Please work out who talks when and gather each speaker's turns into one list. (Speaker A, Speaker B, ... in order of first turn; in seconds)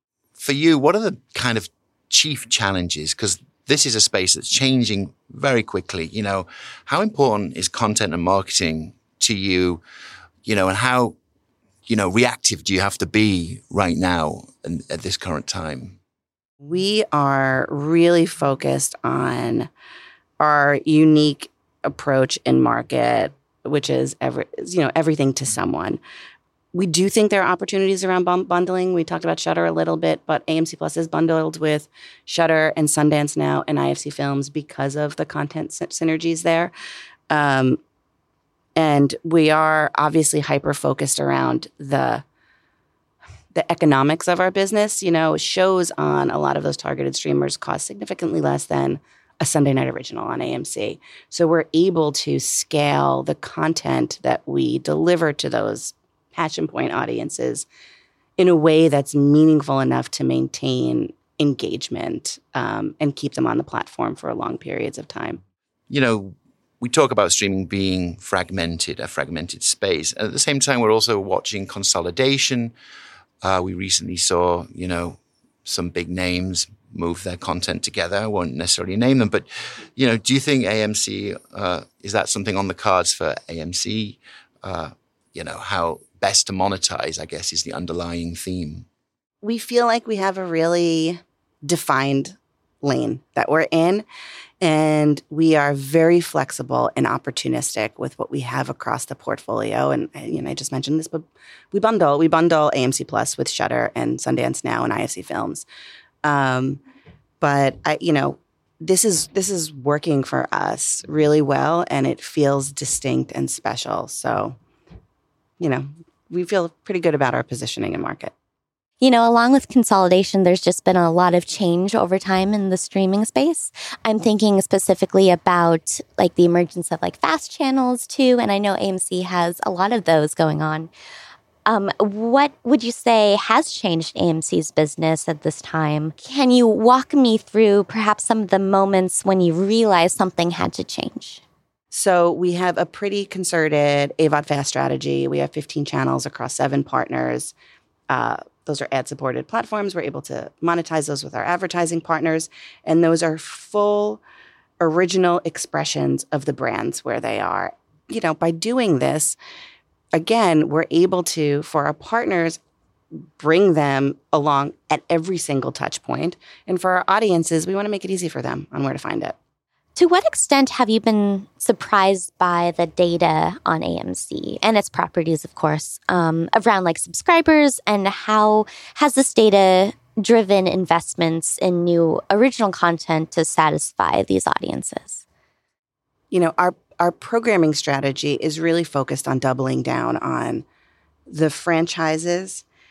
Speaker A: 0.4-9.8, 10.4-11.2, 11.9-16.0, 65.9-72.7, 73.4-79.4, 80.0-88.8
Speaker B: 16.6-19.7, 20.4-26.0, 26.7-36.7, 37.3-37.8, 38.8-42.2, 43.5-57.6, 58.4-65.4, 89.4-94.0, 94.6-105.7, 106.2-106.8, 107.4-114.6, 115.6-118.3, 141.9-147.5, 148.1-154.2, 154.8-159.4, 160.1-162.6, 163.4-169.3, 186.3-190.6, 191.3-192.6
Speaker C: 119.0-130.9, 131.6-141.4, 169.9-185.2